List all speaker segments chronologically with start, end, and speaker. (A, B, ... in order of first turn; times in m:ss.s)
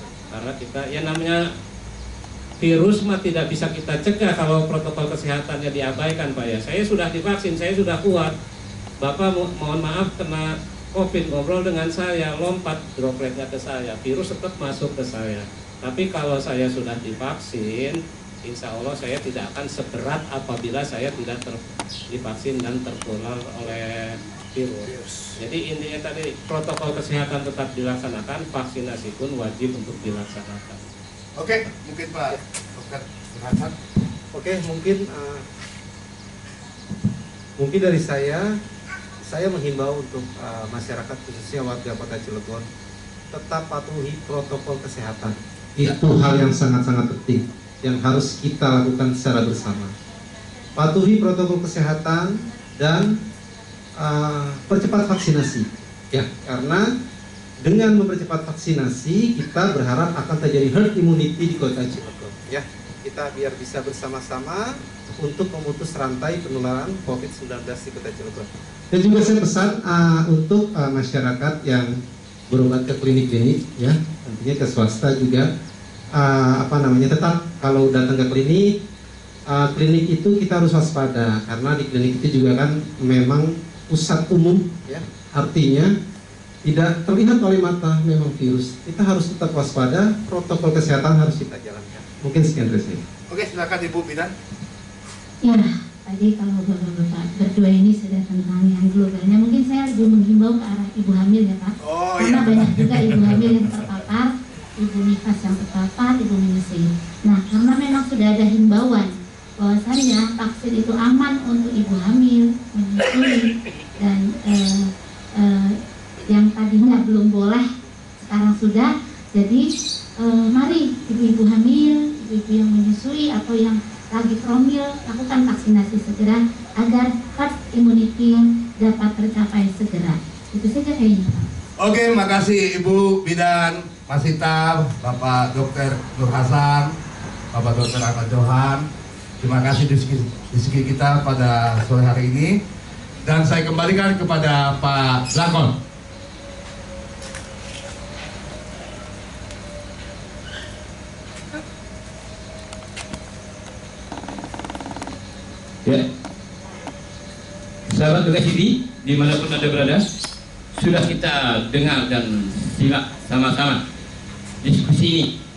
0:00.3-0:01.5 A
0:02.6-0:08.3 A
0:09.0-0:30.8 A
0:24.9-0:25.3 B
0:31.4-0:33.8 B
0:34.3-0:35.5 C
0:37.6-0:38.6 C
0:39.2-0:42.7 C
0:43.3-0:49.9 C
0:50.8-0:53.2 C
0:54.0-0:56.9 C
0:57.6-1:12.0 C
1:12.5-1:15.5 C
1:16.1-1:18.8 C
1:19.5-1:25.9 C
1:26.6-1:33.0 C
1:33.3-1:34.3 B
1:35.4-1:55.8 D
1:41.8-1:44.0 B
1:56.3-1:57.6 D
1:58.2-1:59.6 D
2:00.2-2:11.5 D
2:11.8-2:16.9 B
2:17.5-2:18.9 B
2:19.4-2:22.6 B
2:23.2-2:25.8 B
2:37.9-2:40.0 E
2:40.8-2:43.8 E
2:44.6-2:45.3 E